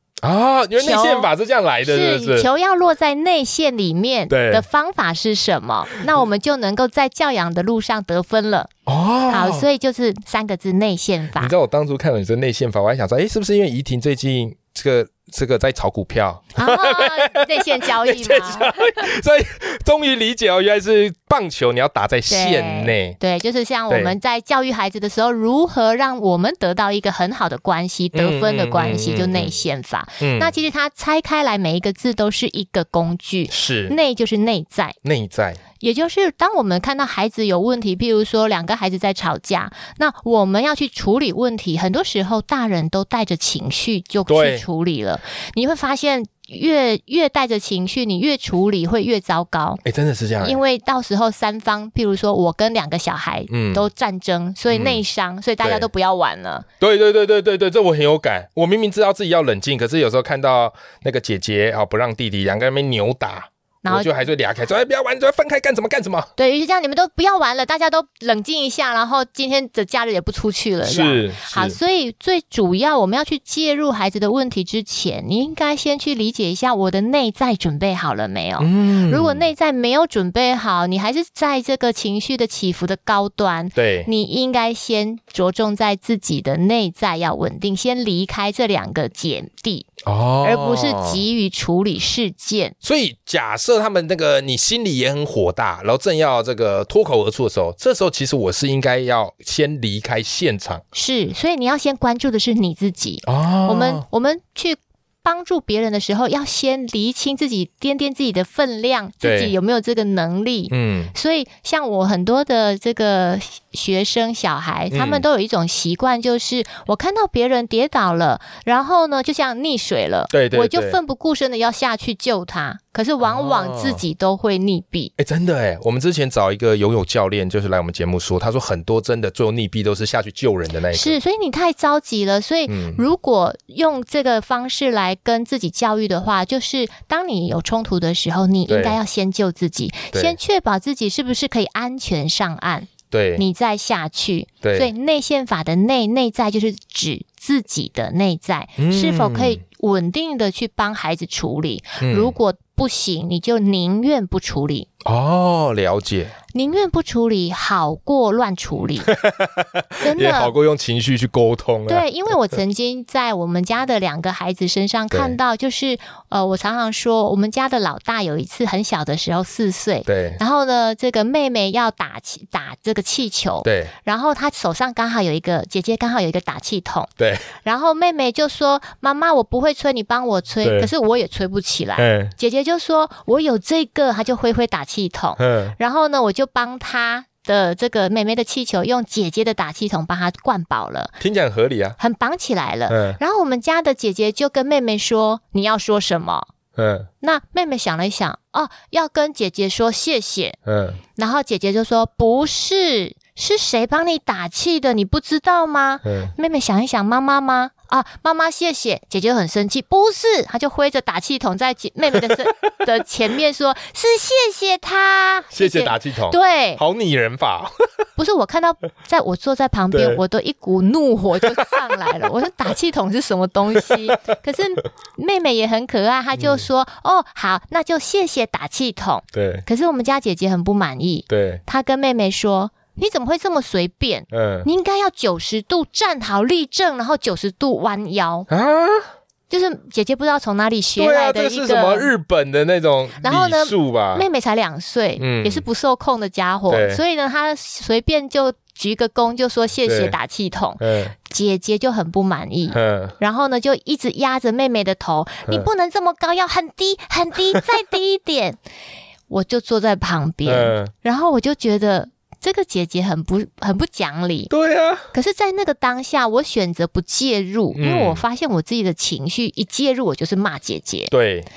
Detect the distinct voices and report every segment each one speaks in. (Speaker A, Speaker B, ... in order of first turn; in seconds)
Speaker A: 0.2-2.5, 4.3-4.7, 8.9-9.7, 11.4-23.2, 23.9-24.1, 28.1-29.6, 30.2-30.5, 33.5-34.0, 35.0-35.6, 44.3-44.6, 49.8-50.6, 53.5-53.9, 54.7-55.0, 55.6-55.9, 56.8-66.3, 70.8-71.8, 78.6-79.5, 83.8-84.1, 90.0-91.2, 92.8-100.8, 103.2-104.0, 109.2-109.5, 110.7-111.1, 114.9-115.2, 120.3-121.0, 123.2-124.0, 125.2-131.2, 132.7-133.0, 138.7-139.0, 140.1-140.4, 143.1-143.4, 144.6-144.9, 148.8-149.6, 152.0-152.3, 155.0-156.3, 159.1-162.1, 165.1-165.4, 170.1-170.4, 173.6-173.9, 177.2-177.5, 180.6-180.9, 182.0-182.3, 185.4-185.8, 191.2-192.0, 192.9-193.2, 196.8-197.1, 200.7-201.0, 206.1-206.3, 215.5-217.7, 219.9-220.2, 223.8-224.8, 226.4-226.7, 229.3-229.7, 231.3-231.6, 234.3-234.7, 238.5-239.1, 241.0-244.3, 245.2-245.7, 246.7-247.0, 249.8-250.2, 250.8-251.2, 252.7-253.2, 260.5-260.9, 264.5-265.1, 267.8-268.2, 271.1-271.5
Speaker B: 0.8-1.3, 1.8-8.7, 9.3-11.5, 16.6-18.8, 22.3-35.0, 35.8-49.8, 50.4-56.6, 63.8-64.1, 66.4-89.9, 90.4-92.8, 100.9-125.1, 130.9-154.9, 156.5-159.1, 160.0-160.5, 161.9-177.1, 177.7-191.2, 192.0-196.5, 197.2-200.6, 201.2-216.8, 218.2-238.5, 239.5-242.1, 243.2-258.6, 259.3-264.5, 265.1-271.1